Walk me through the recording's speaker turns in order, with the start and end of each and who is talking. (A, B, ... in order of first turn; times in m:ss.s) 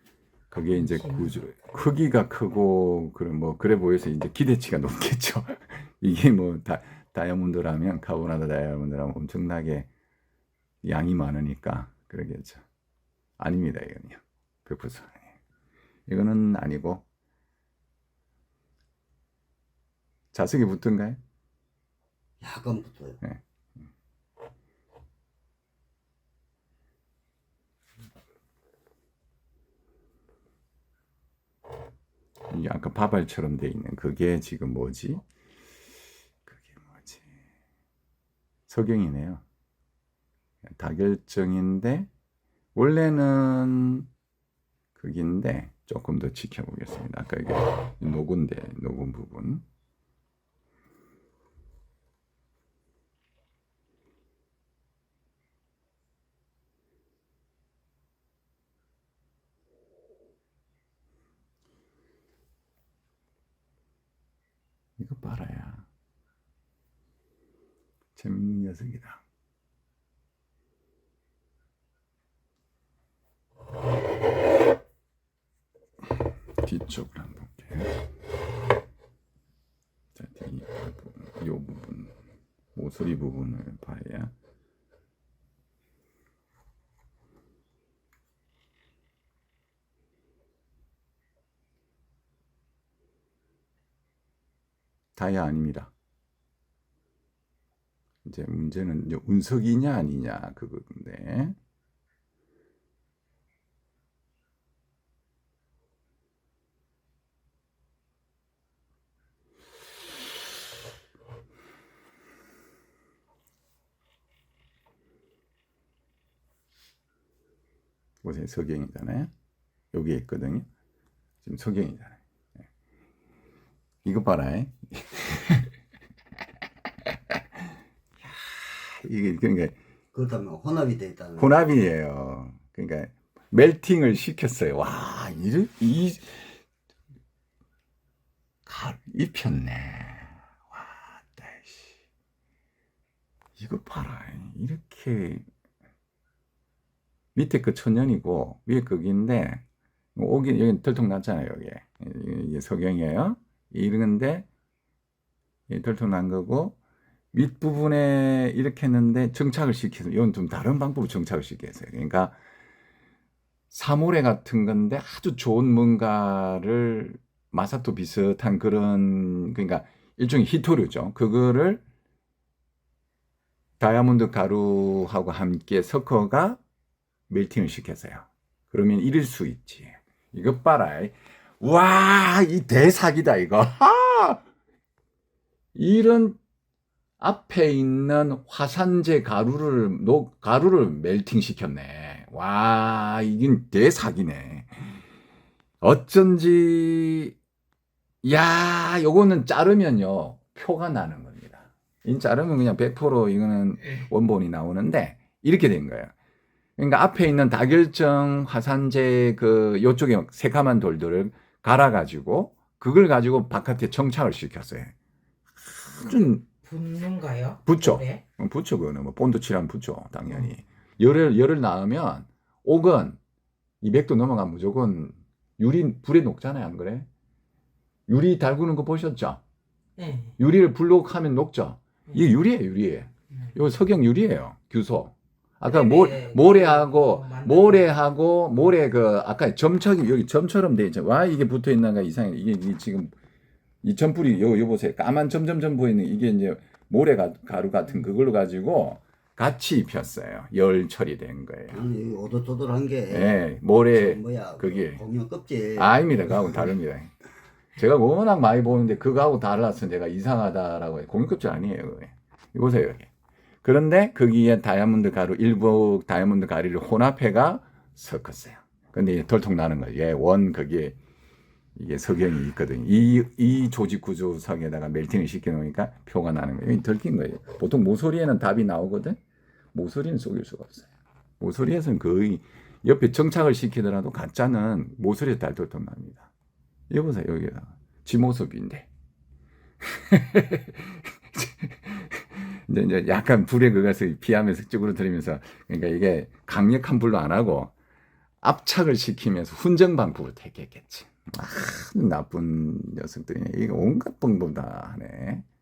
0:00.5-0:09.9 A
0:10.8-0:12.6 A
0:13.4-0:15.4 A
0:16.1-0:17.0 A
0:20.3-0:21.2 A
0:22.4-0:23.2 B
0:32.5-0:35.2 A
0:36.5-0:37.3 A
0:38.7-0:39.4 A
0:40.7-0:42.1 A
0:42.7-0:44.1 A
0:44.9-0:49.6 A
1:05.0-1:05.9 A
1:08.2-1:09.2 A
1:16.6-1:18.0 A
1:20.1-1:22.1 A
1:22.7-1:24.3 A
1:35.2-1:35.9 A
1:38.2-1:41.6 A
1:58.2-1:59.3 A
1:59.9-2:00.6 A
2:01.4-2:02.6 A
2:04.0-2:05.7 A
2:08.2-2:09.8 A
2:10.1-2:11.6 B
2:11.4-2:16.6 A
2:18.6-2:22.0 A
2:23.6-2:25.4 A
2:27.3-2:29.6 A
2:30.1-2:34.5 A
2:35.7-2:36.8 A
2:37.3-2:42.4 A
2:43.7-2:51.8 A
2:53.8-2:56.6 A
2:57.3-3:04.4 A
3:05.7-3:06.4 A
3:07.2-3:14.9 A
3:15.8-3:17.3 A
3:18.2-3:26.1 A
3:26.8-3:34.9 A
3:35.6-3:36.4 A
3:36.6-3:38.2 C
3:37.6-3:43.2 A
3:43.8-3:47.1 A
3:48.1-3:49.4 A
3:50.0-3:50.4 C
3:50.4-4:03.1 A
3:55.6-3:57.9 C
4:03.8-4:11.8 A
4:11.7-4:16.0 B
4:13.1-4:15.0 A
4:15.8-4:17.1 A
4:17.7-4:23.1 A
4:23.6-4:31.0 A
4:31.8-4:39.2 A
4:39.7-4:40.9 A
4:41.4-4:46.3 A
4:46.9-4:48.9 A
4:49.8-4:57.7 A
4:58.4-5:05.4 A